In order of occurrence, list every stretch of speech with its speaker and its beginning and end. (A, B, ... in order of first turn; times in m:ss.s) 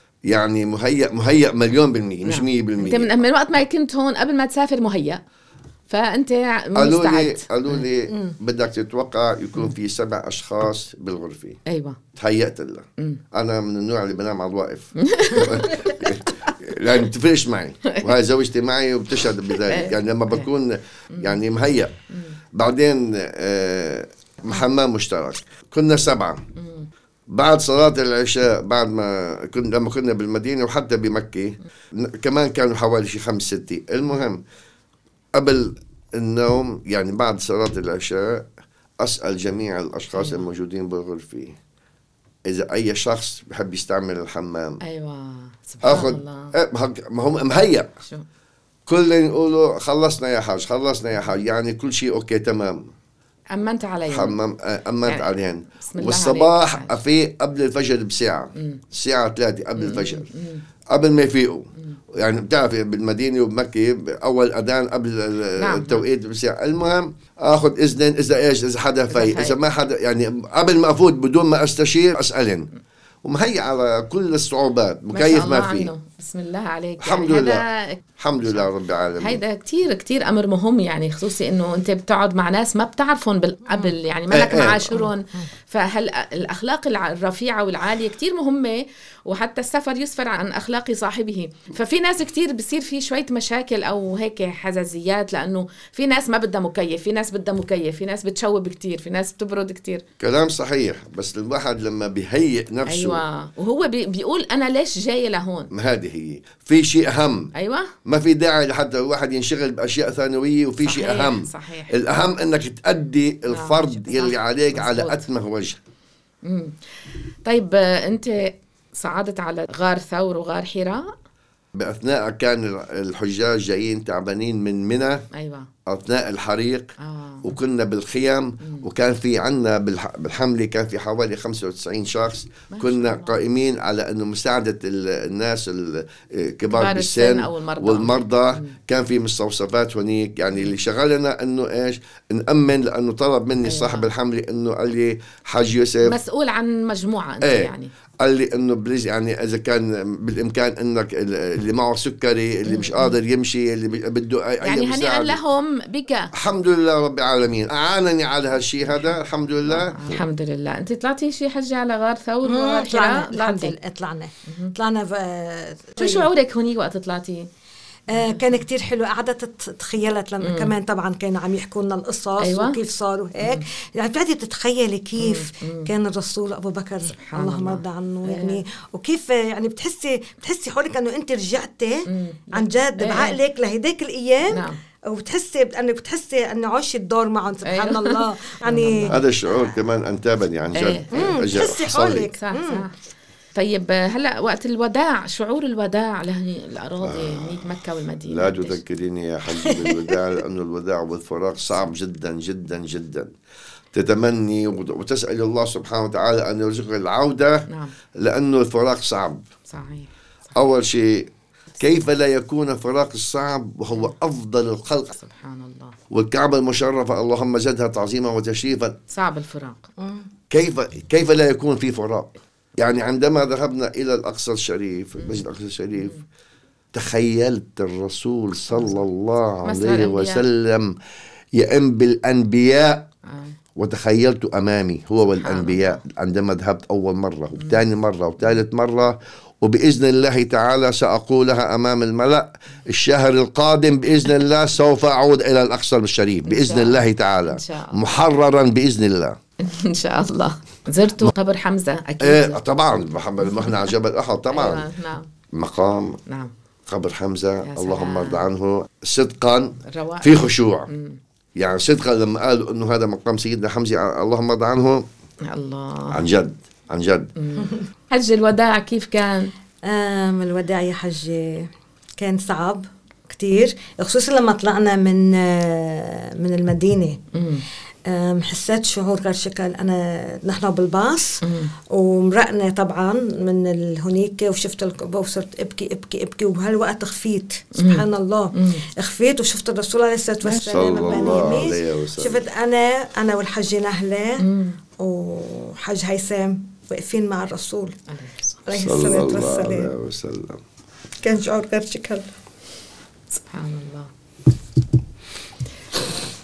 0:00.3-0:03.2 A
0:02.3-0:05.2 B
0:05.9-0:07.8 B
0:06.8-0:11.6 A
0:08.1-0:08.3 C
0:11.7-0:12.0 B
0:12.2-0:21.9 A
0:15.0-0:16.0 B
0:19.6-0:20.5 B
0:21.1-0:21.4 B
0:22.1-0:22.4 B
0:22.5-0:26.4 A
0:26.6-0:26.9 B
0:27.3-0:34.4 A
0:35.4-0:38.5 A
0:39.0-0:41.6 A
0:40.2-0:40.4 B
0:42.5-0:44.8 A
0:44.8-0:46.5 B
0:45.8-0:47.9 A
0:48.9-0:52.9 A
0:53.5-0:54.4 B
0:54.1-1:00.3 A
0:55.0-0:57.0 B
0:58.6-0:58.8 B
0:59.8-1:00.6 B
1:00.9-1:12.7 A
1:05.6-1:06.0 B
1:09.1-1:09.6 B
1:13.2-1:15.9 A
1:15.1-1:18.7 B
1:17.0-1:17.6 A
1:18.2-1:19.4 A
1:19.2-1:40.0 B
1:24.3-1:24.9 A
1:24.9-1:25.4 C
1:40.2-1:43.2 A
1:42.9-1:45.7 B
1:45.7-1:47.5 A
1:47.6-1:47.9 B
1:48.0-1:55.8 A
1:50.8-1:52.0 B
1:53.5-1:55.3 B
1:56.4-1:56.8 B
1:57.4-2:01.1 B
2:01.8-2:05.2 A
2:05.3-2:05.7 B
2:05.9-2:06.9 A
2:07.0-2:07.5 B
2:07.4-2:26.2 A
2:08.6-2:08.9 B
2:12.7-2:13.4 B
2:16.7-2:18.8 B
2:23.6-2:24.1 B
2:26.0-2:27.9 B
2:27.4-2:35.4 A
2:32.7-2:33.2 B
2:34.6-2:36.3 B
2:36.3-2:40.2 A
2:39.6-2:43.8 B
2:42.4-2:46.3 C
2:44.5-2:44.8 B
2:46.0-2:47.5 B
2:48.1-3:09.2 C
2:48.1-2:48.6 B
2:50.4-2:50.7 B
2:52.4-2:52.8 B
2:55.2-2:55.9 B
2:57.2-2:58.6 B
3:02.1-3:03.4 B
3:04.5-3:04.8 B
3:07.6-3:09.2 B
3:09.1-3:12.3 A
3:10.7-3:11.4 B
3:11.1-3:12.8 C
3:12.4-3:12.9 B
3:13.6-3:18.8 B
3:17.0-3:17.7 A
3:18.3-3:23.3 A
3:19.6-3:20.1 C
3:23.9-3:29.4 A
3:27.7-3:28.0 B
3:29.7-3:30.1 B
3:30.5-3:35.2 A
3:35.2-3:36.0 B
3:36.1-3:39.0 A
3:39.1-3:39.8 B
3:40.0-3:40.3 C
3:40.5-3:46.2 A
3:46.9-3:51.0 A
3:48.7-3:49.0 B
3:49.6-3:50.4 B
3:51.5-3:53.1 A
3:53.3-3:53.6 B
3:53.8-4:09.4 A
3:55.4-3:56.0 B
3:57.6-3:57.8 B
4:06.5-4:08.0 B
4:09.6-4:12.6 B
4:12.2-4:14.8 A
4:13.4-4:13.8 B
4:14.5-4:15.3 B
4:15.5-4:16.2 A
4:16.3-4:16.5 B
4:16.9-4:20.9 A
4:17.6-4:18.5 B
4:19.9-4:21.2 B
4:21.6-4:25.0 A
4:25.5-4:26.2 B
4:26.1-4:27.3 A
4:27.4-4:29.5 B
4:29.8-4:37.2 C
4:37.3-4:37.6 B
4:38.1-4:54.4 C
4:41.4-4:41.7 B
4:47.8-4:48.0 B
4:48.6-4:48.8 B
4:50.4-4:51.7 B
4:50.7-4:52.4 A
4:54.4-4:54.8 B
4:55.0-4:58.0 C
4:58.1-4:59.1 B
4:58.7-4:59.9 C
4:58.8-5:00.6 A
5:01.2-5:02.3 C
5:03.3-5:04.1 B